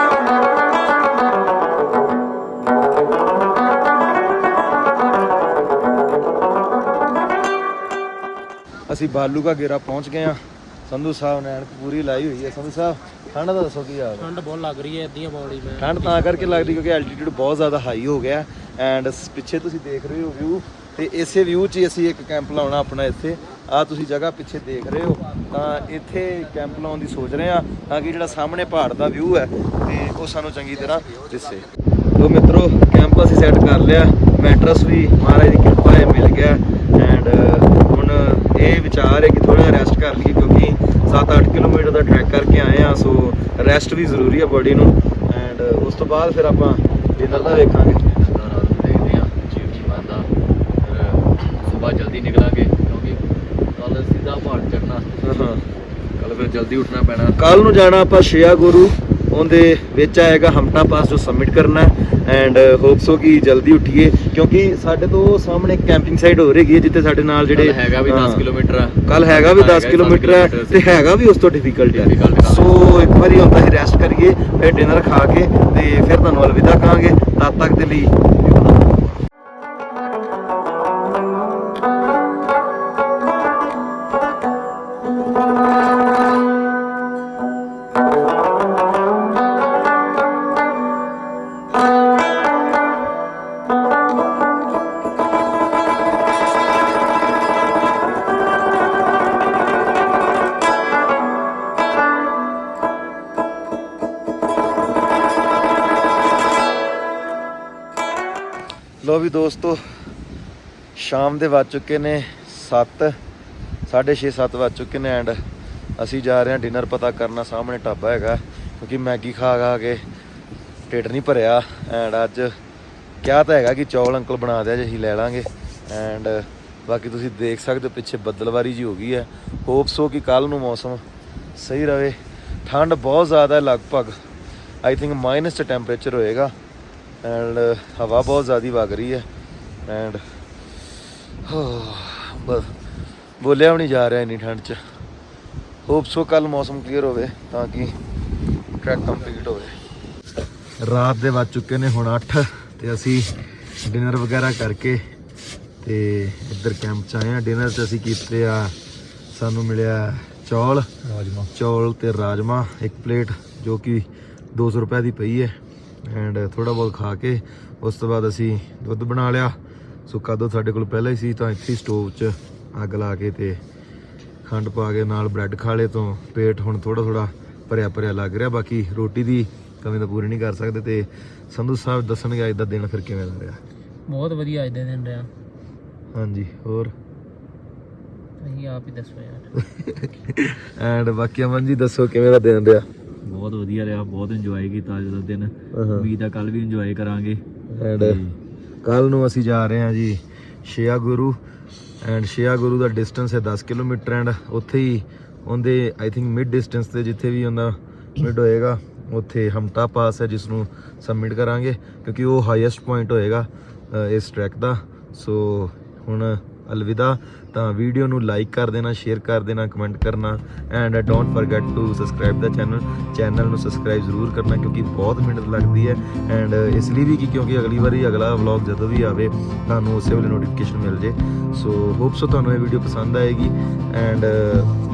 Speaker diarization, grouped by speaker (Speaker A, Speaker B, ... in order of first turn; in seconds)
Speaker A: 8.9-14.3, 15.8-48.0, 55.2-55.6, 57.4-68.5, 69.1-78.7, 109.0-109.8, 111.0-113.2, 113.9-115.4, 116.0-120.0, 120.9-122.5, 123.2-131.0, 131.6-134.2, 134.8-136.5, 137.2-139.3, 139.9-140.2, 141.5-142.7, 143.4-144.8, 145.9-147.9, 148.8-149.8, 150.8-153.3, 153.8-155.0, 155.8-158.8, 159.3-160.9, 161.5-173.6, 174.4-183.6, 186.1-186.9, 189.6-192.9, 195.7-196.1, 197.7-198.2, 198.8-201.4, 202.0-234.7
Speaker B: 14.2-16.8, 184.1-185.3, 188.4-189.5
Speaker C: 48.1-50.3, 50.8-53.2, 53.7-55.5, 56.2-57.4, 67.5-71.1, 71.9-73.0, 161.1-161.4, 195.9-197.3